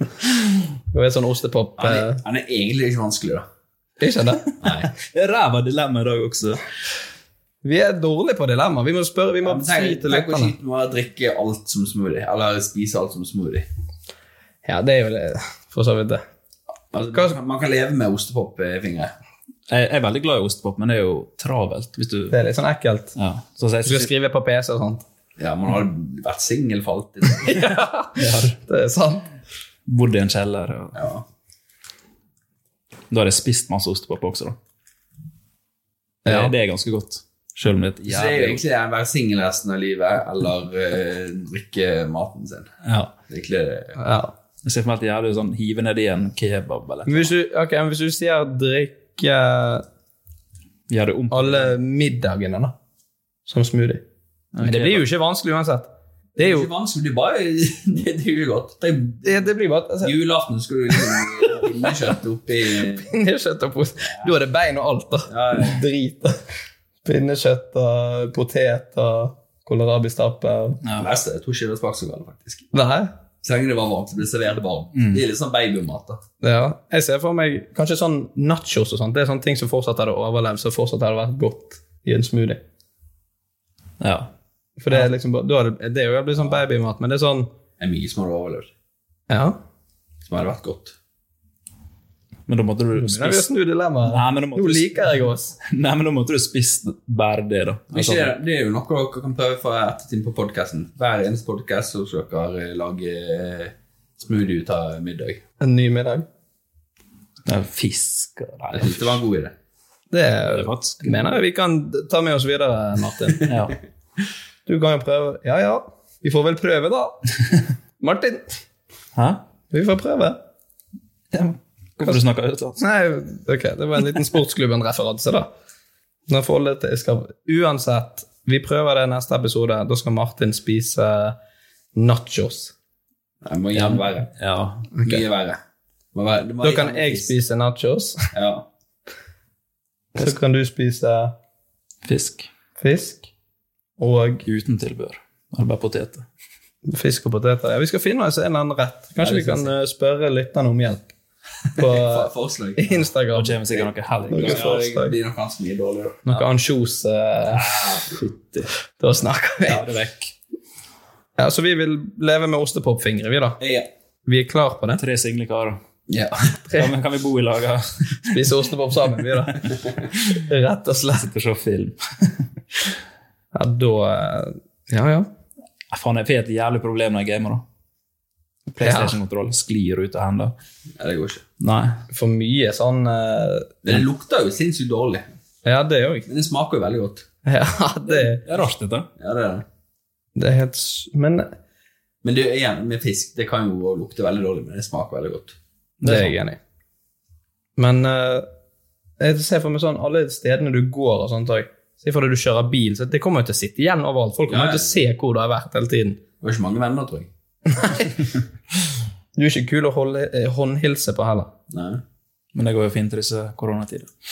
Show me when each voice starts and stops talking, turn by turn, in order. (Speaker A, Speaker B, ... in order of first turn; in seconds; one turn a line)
Speaker A: 0.9-2.2
Speaker B: 1.8-3.5
Speaker A: 4.0-4.5
Speaker B: 4.6-4.9
Speaker C: 5.0-6.6
Speaker A: 7.6-10.5
Speaker B: 9.4-13.7
Speaker A: 14.6-16.2
Speaker B: 16.9-19.1
Speaker C: 19.7-22.3
Speaker A: 22.3-23.1
Speaker C: 23.1-24.1
Speaker A: 23.8-25.0
Speaker B: 25.4-27.6
Speaker A: 27.4-29.2
Speaker C: 28.1-28.6
Speaker C: 29.9-30.9
Speaker B: 30.9-31.2
Speaker C: 33.1-34.6
Speaker A: 36.2-36.5
Speaker C: 36.2-38.6
Speaker B: 38.0-42.7
Speaker C: 42.8-43.1
Speaker B: 43.3-44.0
Speaker A: 44.0-44.3
Speaker C: 44.6-47.3
Speaker A: 47.1-49.8
Speaker C: 50.9-51.7
Speaker A: 51.3-52.7
Speaker A: 53.5-54.0
Speaker C: 54.5-55.0
Speaker A: 54.6-56.7
Speaker B: 56.4-59.5
Speaker A: 59.2-60.1
Speaker B: 60.0-63.1
Speaker A: 63.0-66.4
Speaker B: 65.3-65.8
Speaker A: 67.0-70.8
Speaker B: 71.0-72.7
Speaker A: 72.7-73.1
Speaker B: 73.4-76.2
Speaker C: 74.9-75.2
Speaker A: 76.4-82.6
Speaker C: 84.0-84.3
Speaker A: 84.8-87.5
Speaker B: 87.8-88.7
Speaker A: 89.3-89.6
Speaker B: 90.3-90.9
Speaker C: 92.5-93.5
Speaker A: 93.0-95.5
Speaker C: 94.1-98.3
Speaker B: 97.9-105.4
Speaker A: 105.6-106.2
Speaker C: 107.5-109.2
Speaker B: 108.7-109.5
Speaker A: 110.1-113.4
Speaker C: 110.5-111.3
Speaker C: 113.5-113.7
Speaker A: 114.7-117.2
Speaker A: 118.0-118.5
Speaker C: 119.1-119.4
Speaker A: 119.7-120.4
Speaker C: 121.3-122.8
Speaker A: 122.8-125.5
Speaker A: 126.3-131.3
Speaker A: 131.9-132.7
Speaker B: 133.4-134.3
Speaker C: 134.4-134.9
Speaker A: 134.9-135.2
Speaker B: 135.0-135.6
Speaker B: 136.1-137.3
Speaker A: 136.6-138.2
Speaker B: 138.3-138.7
Speaker A: 140.1-141.3
Speaker C: 142.0-142.5
Speaker A: 142.8-143.3
Speaker A: 144.0-144.4
Speaker C: 144.4-146.2
Speaker A: 146.8-151.1
Speaker B: 149.2-149.7
Speaker B: 151.7-153.1
Speaker A: 151.8-153.7
Speaker C: 153.3-154.8
Speaker B: 153.7-156.4
Speaker A: 154.3-155.1
Speaker A: 156.2-157.6
Speaker B: 157.6-158.2
Speaker C: 157.9-158.6
Speaker A: 159.0-159.8
Speaker B: 159.7-160.0
Speaker C: 159.8-160.3
Speaker A: 161.4-163.6
Speaker B: 163.6-163.9
Speaker A: 164.2-165.0
Speaker C: 165.0-165.8
Speaker B: 166.1-166.6
Speaker C: 166.7-168.3
Speaker A: 168.2-169.7
Speaker A: 170.4-171.3
Speaker C: 171.1-172.4
Speaker A: 173.5-175.3
Speaker C: 175.9-177.6
Speaker A: 178.7-179.2
Speaker C: 178.8-180.5
Speaker B: 181.0-181.4
Speaker C: 181.6-182.0
Speaker A: 182.1-183.9
Speaker B: 183.8-185.3
Speaker A: 185.6-186.3
Speaker B: 186.3-187.2
Speaker A: 187.4-188.4
Speaker C: 188.4-189.1
Speaker B: 189.2-189.6
Speaker A: 190.3-191.5
Speaker B: 192.2-195.6
Speaker C: 196.0-196.3
Speaker A: 196.0-196.6
Speaker A: 197.8-198.5
Speaker A: 199.2-206.2
Speaker B: 204.5-205.0
Speaker B: 206.4-207.3
Speaker A: 207.7-208.1
Speaker A: 209.3-211.5
Speaker B: 211.7-212.0
Speaker C: 212.5-214.1